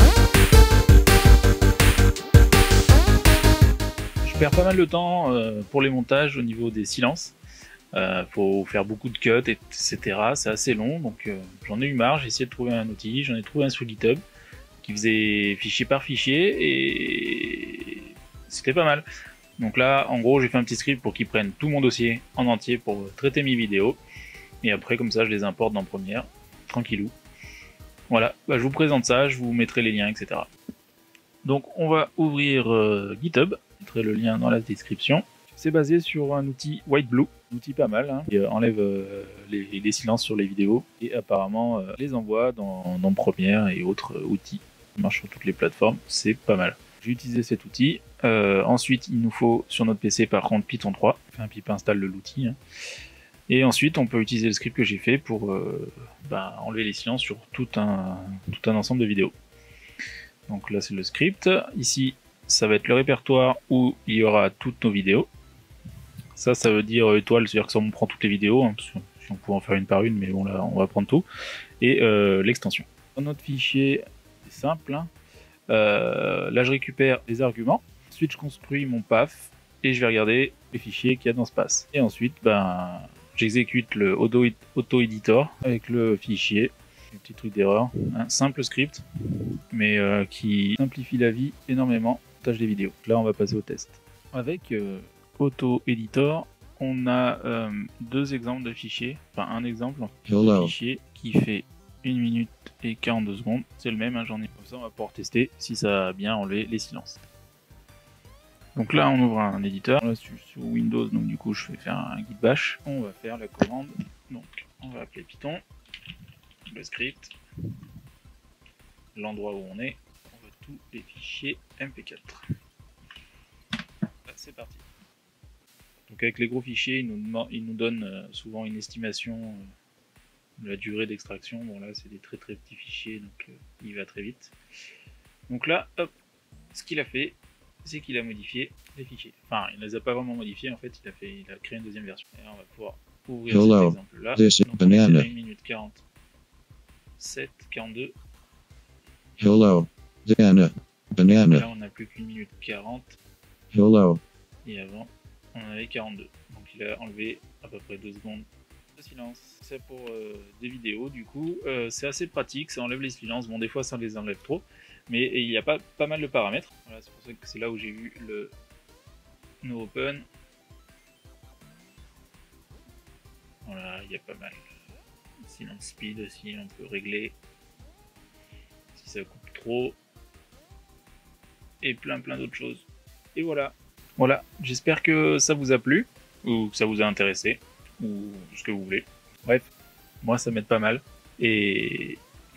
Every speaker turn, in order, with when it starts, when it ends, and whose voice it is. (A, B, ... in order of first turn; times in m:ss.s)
0:04.2-0:07.4 A
0:07.9-0:14.2 A
0:14.8-0:19.0 A
0:19.6-0:24.0 A
0:24.6-0:27.1 A
0:28.1-0:30.5 A
0:31.4-0:52.6 A
0:53.5-0:59.3 A
1:00.5-1:05.3 A
1:06.4-1:11.2 A
1:11.8-1:15.1 A
1:15.7-1:29.0 A
1:29.7-1:47.2 A
1:40.3-1:40.7 B
1:48.7-1:55.6 A
1:56.7-1:57.3 A
1:59.1-2:02.4 A
2:04.3-2:04.8 A
2:06.1-2:09.6 A
2:10.6-2:14.5 A
2:15.5-2:16.1 A
2:16.7-2:26.0 A
2:23.5-2:25.3 B
2:27.2-2:28.1 A
2:29.4-2:31.7 B
2:31.5-2:33.2 A
2:33.7-2:34.2 B
2:34.6-2:38.4 A
2:39.0-2:48.5 A
2:49.6-2:50.2 A
2:53.6-2:54.6 A
2:55.4-2:57.4 A
2:58.9-3:00.0 A
3:01.8-3:09.6 A
3:10.2-3:12.2 A